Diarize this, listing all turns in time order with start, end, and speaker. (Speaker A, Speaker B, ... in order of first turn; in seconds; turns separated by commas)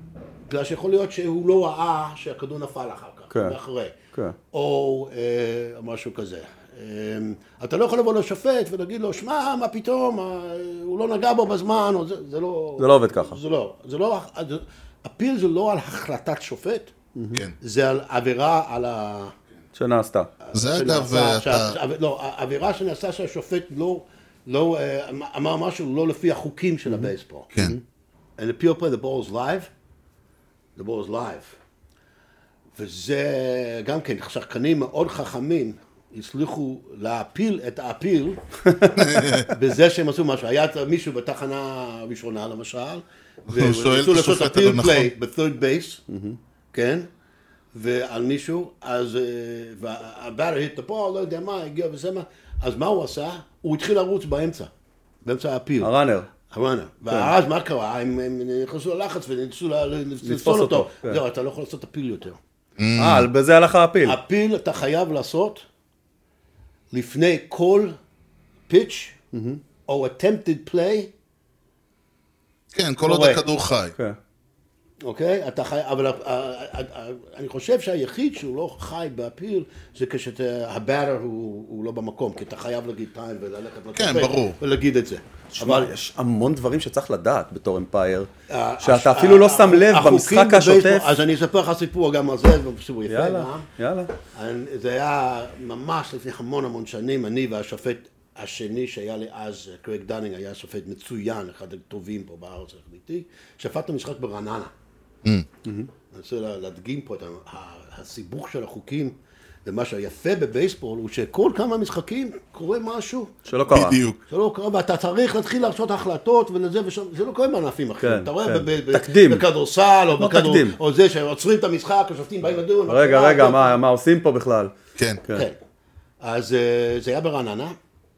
Speaker A: 0.5-4.0, Speaker A: 4.5-16.9, Speaker B: 12.8-13.4, Speaker B: 17.2-17.4, Speaker A: 17.6-19.4, Speaker B: 19.8-20.3, Speaker A: 20.4-27.5, Speaker C: 20.5-21.8, Speaker B: 26.9-27.8, Speaker A: 28.4-29.7, Speaker A: 30.8-31.6, Speaker A: 32.8-38.4, Speaker C: 38.9-39.5, Speaker A: 39.5-46.0, Speaker C: 43.5-45.1, Speaker B: 46.1-46.4, Speaker A: 46.7-47.1, Speaker A: 47.7-54.7, Speaker A: 55.2-55.9, Speaker B: 55.8-56.3, Speaker A: 56.5-62.4, Speaker B: 60.2-61.2, Speaker C: 62.8-63.3, Speaker B: 63.0-64.2, Speaker A: 64.0-65.7, Speaker A: 66.9-68.0, Speaker A: 68.7-69.2, Speaker B: 69.3-69.6, Speaker A: 69.9-71.1, Speaker C: 72.7-73.9, Speaker A: 73.0-73.4, Speaker A: 75.0-85.9, Speaker C: 83.9-84.6, Speaker B: 85.5-88.3, Speaker A: 88.5-93.7, Speaker B: 88.8-91.1, Speaker B: 93.1-94.1, Speaker A: 94.3-104.7, Speaker A: 106.1-113.4, Speaker B: 113.5-114.0, Speaker C: 113.7-114.2, Speaker A: 114.3-123.8, Speaker B: 118.0-119.5, Speaker B: 120.2-120.8, Speaker B: 122.9-124.7, Speaker C: 125.0-125.2, Speaker A: 125.3-125.6, Speaker A: 126.2-127.8